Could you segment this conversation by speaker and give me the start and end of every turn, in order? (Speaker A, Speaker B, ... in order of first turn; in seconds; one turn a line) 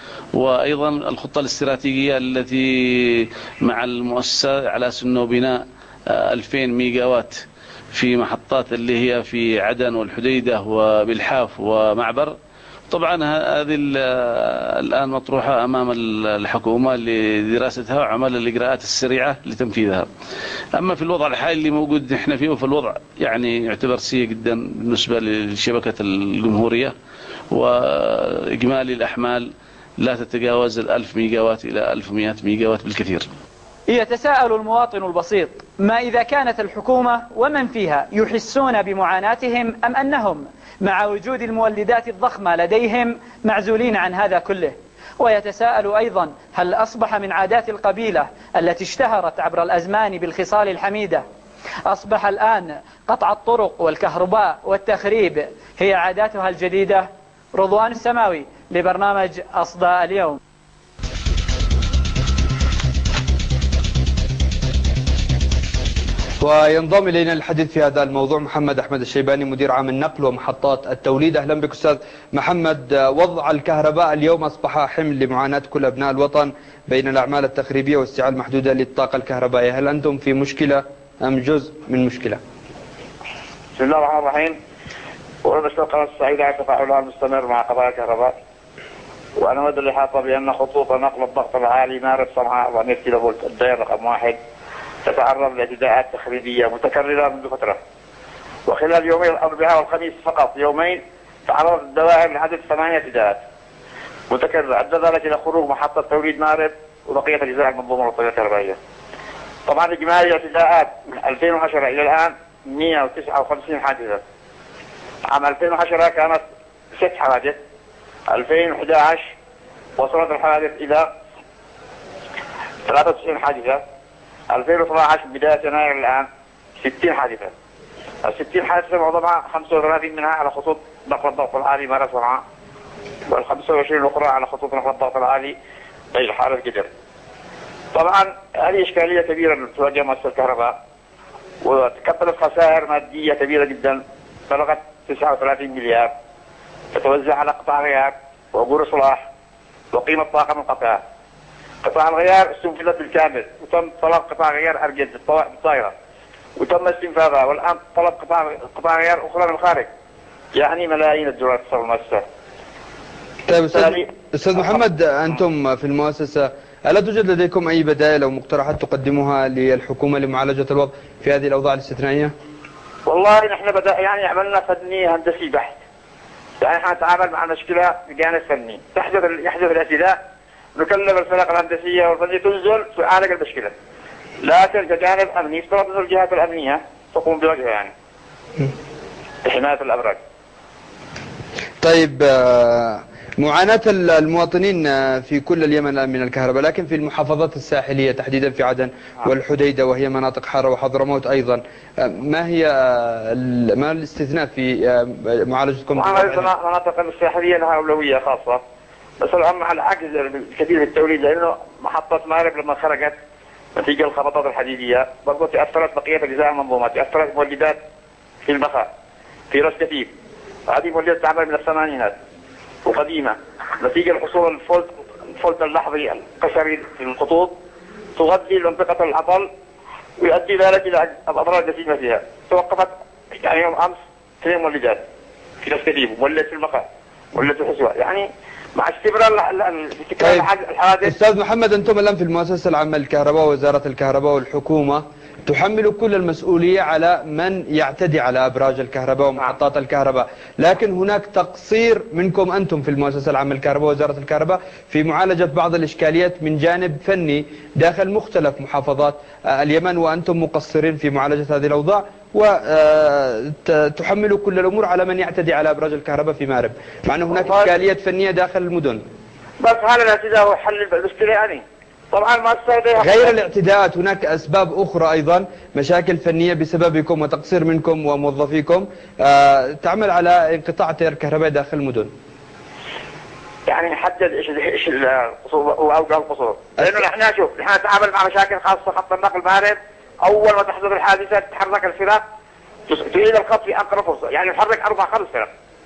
Speaker A: 0.4-7.4
Speaker A: 7.9-12.3
Speaker A: 12.9-20.1
Speaker A: 20.8-26.9
Speaker A: 27.5-33.3
Speaker B: 33.9-51.2
Speaker B: 51.9-60.4
Speaker C: 66.4-82.4
Speaker D: 83.8-84.6
Speaker D: 85.4-88.3
Speaker D: 89.4-94.4
Speaker D: 95.0-97.8
Speaker D: 98.7-103.4
Speaker D: 104.3-108.8
Speaker D: 109.7-114.2
Speaker D: 115.3-116.4
Speaker D: 117.0-117.6
Speaker D: 118.3-119.3
Speaker D: 120.0-121.1
Speaker D: 122.9-123.8
Speaker D: 124.5-126.3
Speaker D: 126.8-127.5
Speaker D: 128.2-132.4
Speaker D: 133.3-135.5
Speaker D: 136.1-136.9
Speaker D: 137.9-140.7
Speaker D: 141.6-146.1
Speaker D: 146.9-149.2
Speaker D: 149.9-151.0
Speaker D: 151.8-155.9
Speaker D: 156.6-159.9
Speaker D: 160.6-162.2
Speaker C: 163.5-172.3
Speaker D: 163.7-164.0
Speaker D: 173.1-175.8
Speaker D: 176.6-180.2
Speaker D: 180.8-183.7
Speaker D: 184.4-187.9
Speaker D: 189.4-190.2
Speaker C: 191.8-206.5
Speaker D: 205.9-208.6
Speaker D: 209.2-213.2
Speaker D: 213.8-217.8
Speaker D: 218.4-218.9
Speaker D: 219.5-220.1
Speaker D: 220.7-222.1
Speaker D: 222.8-227.6
Speaker D: 228.2-229.5
Speaker D: 230.2-235.0
Speaker D: 235.6-241.1
Speaker C: 240.2-240.5
Speaker C: 241.0-269.0
Speaker D: 267.3-267.8
Speaker D: 269.6-273.4
Speaker C: 273.0-282.1
Speaker D: 283.7-292.2
Speaker C: 286.8-287.0
Speaker D: 292.9-295.5